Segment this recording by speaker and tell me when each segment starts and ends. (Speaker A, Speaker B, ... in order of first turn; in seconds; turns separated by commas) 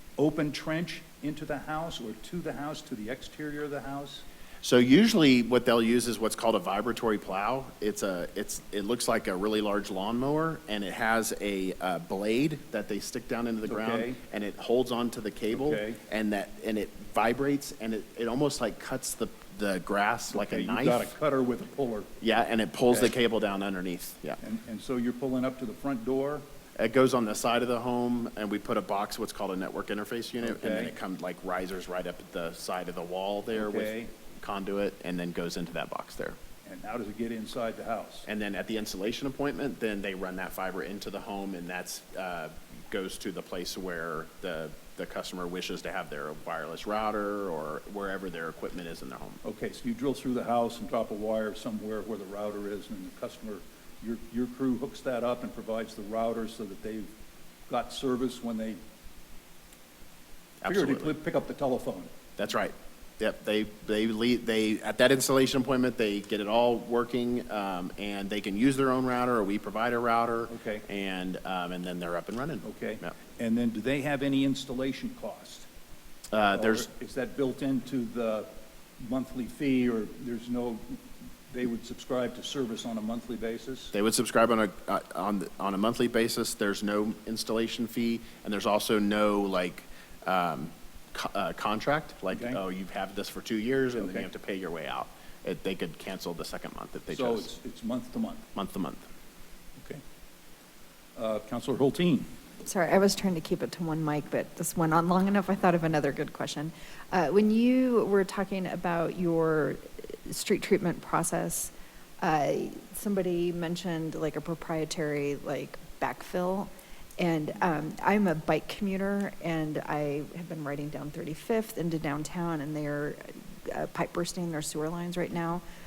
Speaker A: 0.2-4.2, Speaker B: 4.6-21.1, Speaker A: 13.7-14.2, Speaker A: 15.5-16.0, Speaker A: 20.3-22.1, Speaker B: 22.2-24.4, Speaker A: 24.4-26.5, Speaker B: 26.8-36.4, Speaker A: 30.4-30.9, Speaker A: 33.5-34.1, Speaker A: 36.6-38.3, Speaker B: 38.3-49.4, Speaker A: 49.4-57.1, Speaker A: 57.7-58.8, Speaker B: 60.6-61.1, Speaker A: 60.6-62.1, Speaker B: 62.4-73.1, Speaker A: 70.5-70.9, Speaker A: 72.6-75.7, Speaker B: 76.3-76.9, Speaker A: 76.5-83.9, Speaker B: 83.9-97.5, Speaker A: 92.3-92.6, Speaker A: 94.0-94.3, Speaker A: 97.1-98.5, Speaker B: 98.6-99.1, Speaker A: 99.8-100.0, Speaker A: 101.2-102.3, Speaker C: 102.6-125.6